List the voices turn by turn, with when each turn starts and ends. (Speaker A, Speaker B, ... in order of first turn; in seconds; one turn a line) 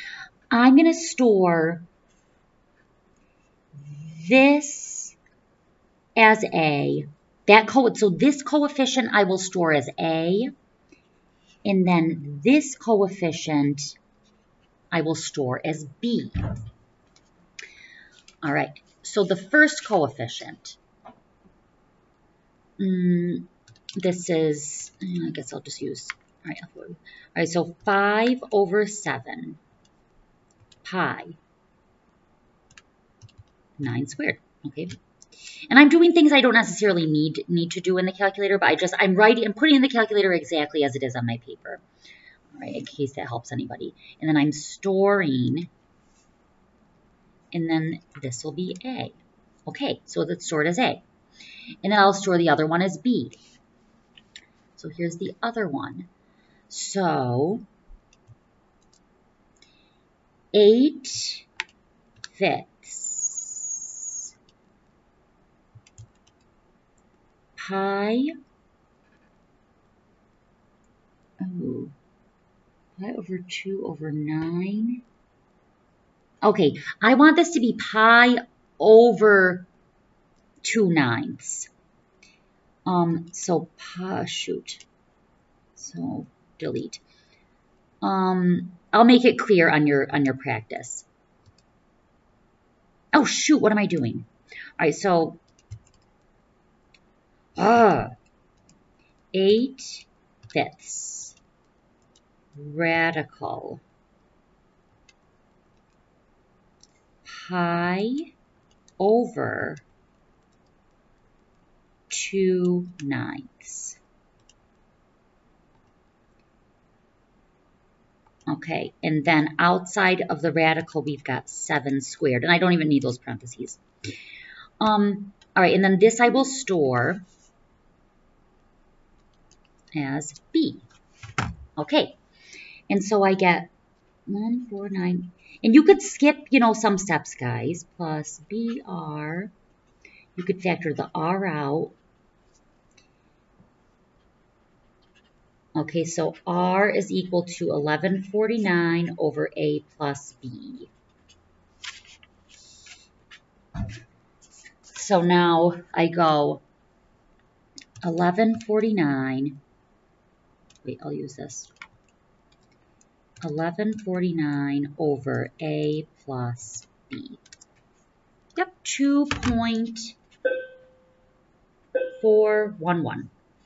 Speaker A: 0.5-1.9
Speaker A: 3.8-5.2
Speaker A: 6.2-10.5
Speaker A: 11.7-13.9
Speaker A: 14.9-16.5
Speaker A: 18.4-20.8
Speaker A: 22.8-23.5
Speaker A: 24.0-29.6
Speaker A: 30.8-31.4
Speaker A: 33.8-34.9
Speaker A: 35.7-41.8
Speaker A: 42.5-45.7
Speaker A: 47.5-51.0
Speaker A: 51.8-53.4
Speaker A: 54.8-56.1
Speaker A: 56.7-57.7
Speaker A: 60.5-61.5
Speaker A: 62.3-64.3
Speaker A: 67.6-68.3
Speaker A: 71.4-71.9
Speaker A: 73.0-75.0
Speaker A: 76.4-79.7
Speaker A: 80.6-81.7
Speaker A: 82.9-84.8
Speaker A: 85.8-87.0
Speaker A: 88.0-91.1
Speaker A: 93.1-94.3
Speaker A: 94.8-95.4
Speaker A: 97.6-98.1
Speaker A: 99.3-101.4
Speaker A: 102.6-103.8
Speaker A: 107.3-108.2
Speaker A: 109.0-109.8
Speaker A: 112.1-114.0
Speaker A: 118.5-123.8
Speaker A: 124.8-127.2
Speaker A: 129.9-130.9
Speaker A: 131.8-132.2
Speaker A: 132.9-133.7
Speaker A: 134.3-139.5
Speaker A: 140.4-142.0
Speaker A: 145.8-150.9
Speaker A: 154.9-156.6
Speaker A: 158.0-159.6
Speaker A: 160.8-161.7
Speaker A: 163.4-167.4
Speaker A: 168.6-170.2
Speaker A: 172.2-173.3